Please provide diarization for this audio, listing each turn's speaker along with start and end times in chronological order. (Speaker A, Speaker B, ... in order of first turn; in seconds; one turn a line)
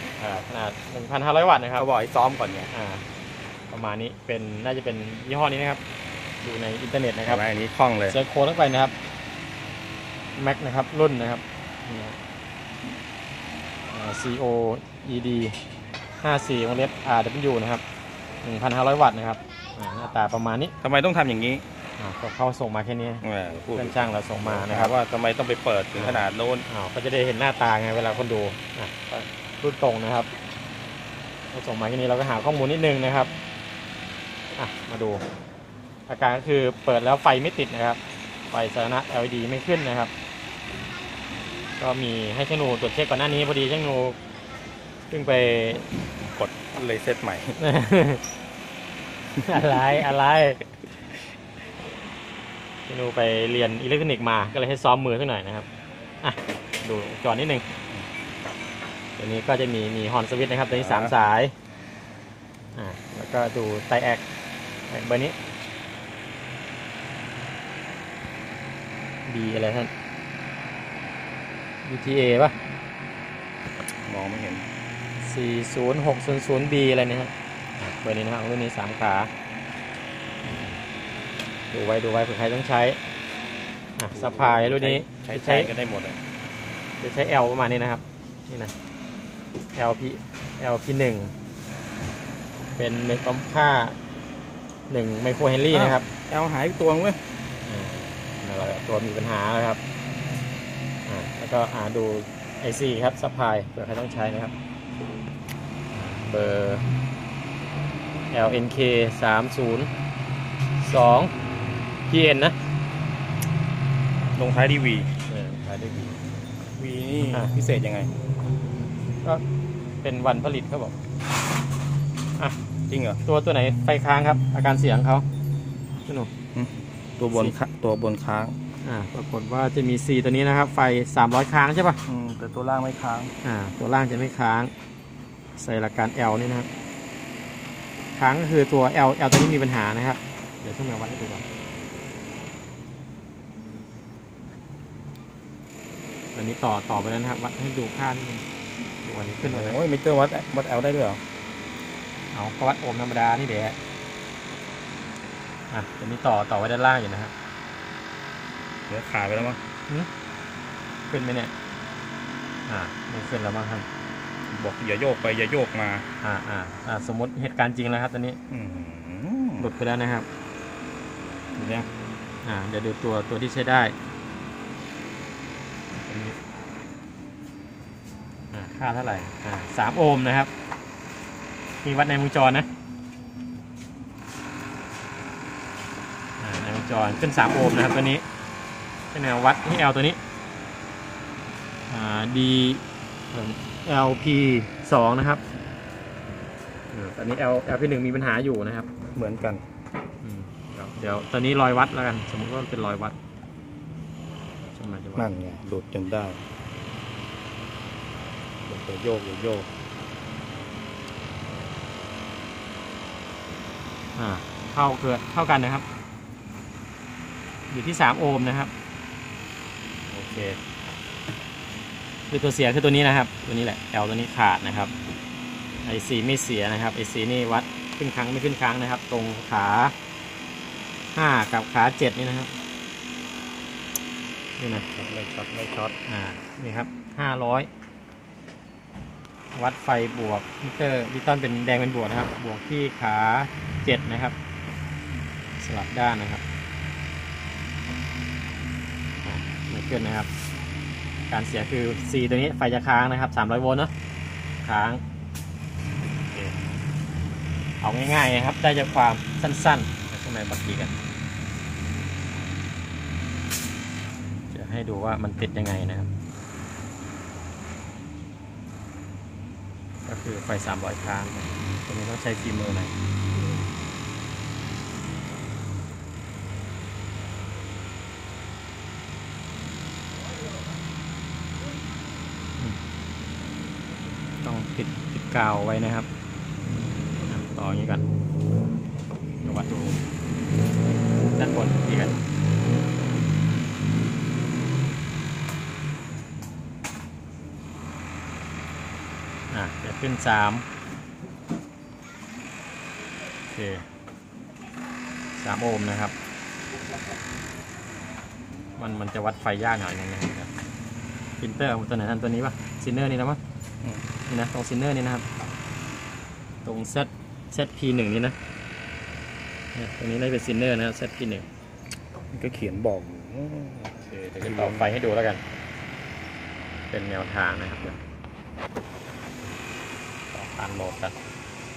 Speaker A: 0.2-1.9
Speaker B: 1.8-2.7
Speaker A: 2.7-3.0
Speaker A: 3.7-5.8
Speaker A: 6.4-7.4
Speaker B: 7.2-8.2
Speaker A: 8.1-8.9
Speaker A: 10.4-12.2
Speaker A: 13.9-15.6
Speaker A: 16.2-17.8
Speaker A: 18.4-20.7
Speaker B: 20.8-21.6
Speaker A: 22.0-23.2
Speaker B: 23.2-26.6
Speaker A: 23.8-24.9
Speaker A: 26.0-30.3
Speaker A: 31.5-33.3
Speaker A: 34.5-35.2
Speaker A: 36.1-38.0
Speaker A: 38.5-40.1
Speaker A: 41.8-44.2
Speaker A: 45.1-45.9
Speaker B: 46.3-47.6
Speaker A: 47.6-48.2
Speaker A: 49.4-50.6
Speaker A: 52.9-55.7
Speaker A: 56.2-57.6
Speaker A: 59.2-61.5
Speaker B: 60.7-61.1
Speaker A: 62.7-64.2
Speaker A: 64.9-65.3
Speaker A: 69.3-69.9
Speaker A: 71.8-72.6
Speaker B: 74.1-74.7
Speaker A: 75.2-79.3
Speaker A: 81.7-83.0
Speaker A: 84.0-85.7
Speaker B: 84.1-86.2
Speaker A: 87.0-88.7
Speaker A: 89.8-91.3
Speaker A: 92.8-94.0
Speaker A: 94.9-96.1
Speaker B: 95.7-97.2
Speaker A: 97.7-99.8
Speaker A: 101.1-104.5
Speaker A: 105.9-106.9
Speaker A: 108.3-109.9
Speaker A: 110.8-111.3
Speaker A: 112.1-112.6
Speaker B: 114.3-115.1
Speaker A: 115.3-116.2
Speaker B: 116.8-118.1
Speaker A: 117.2-117.5
Speaker A: 120.0-121.0
Speaker B: 122.9-123.2
Speaker A: 123.2-125.2
Speaker B: 126.5-128.6
Speaker A: 128.8-132.0
Speaker B: 132.1-133.3
Speaker A: 133.4-134.7
Speaker A: 135.6-136.7
Speaker A: 138.2-141.4
Speaker A: 146.3-148.4
Speaker A: 149.0-149.8
Speaker B: 149.4-151.2
Speaker A: 152.3-153.8
Speaker A: 155.7-157.3
Speaker B: 158.9-159.6
Speaker A: 161.1-161.5
Speaker A: 162.7-163.9
Speaker B: 164.5-166.1
Speaker A: 166.2-168.4
Speaker B: 168.5-169.7
Speaker A: 169.6-170.3
Speaker A: 171.6-171.9
Speaker A: 172.4-173.9
Speaker A: 176.0-176.4
Speaker A: 178.5-180.5
Speaker A: 181.8-182.7
Speaker A: 186.4-188.2
Speaker A: 189.1-190.2
Speaker A: 191.9-195.4
Speaker A: 196.9-198.9
Speaker B: 199.2-199.6
Speaker A: 200.2-203.2
Speaker A: 204.7-205.3
Speaker B: 205.2-206.4
Speaker B: 208.7-209.7
Speaker A: 214.2-215.8
Speaker A: 217.7-218.7
Speaker A: 220.1-220.6
Speaker A: 222.3-224.9
Speaker A: 225.8-229.9
Speaker A: 231.1-232.6
Speaker A: 234.6-234.9
Speaker B: 234.9-235.9
Speaker A: 236.1-237.7
Speaker A: 239.5-244.3
Speaker A: 245.6-246.4
Speaker A: 249.2-250.3
Speaker A: 251.3-253.9
Speaker A: 254.6-255.0
Speaker A: 256.3-256.6
Speaker A: 257.8-260.9
Speaker A: 264.5-266.1
Speaker A: 270.1-272.9
Speaker A: 284.4-286.1
Speaker A: 287.2-288.1
Speaker A: 289.4-290.0
Speaker A: 291.2-292.2
Speaker A: 299.5-300.6
Speaker A: 303.5-303.9
Speaker A: 305.4-306.1
Speaker A: 308.8-310.5
Speaker A: 311.4-313.4
Speaker A: 314.3-315.2
Speaker A: 316.6-318.4
Speaker A: 319.7-321.4
Speaker B: 322.3-324.9
Speaker A: 324.1-325.4
Speaker A: 326.9-328.0
Speaker A: 330.3-331.2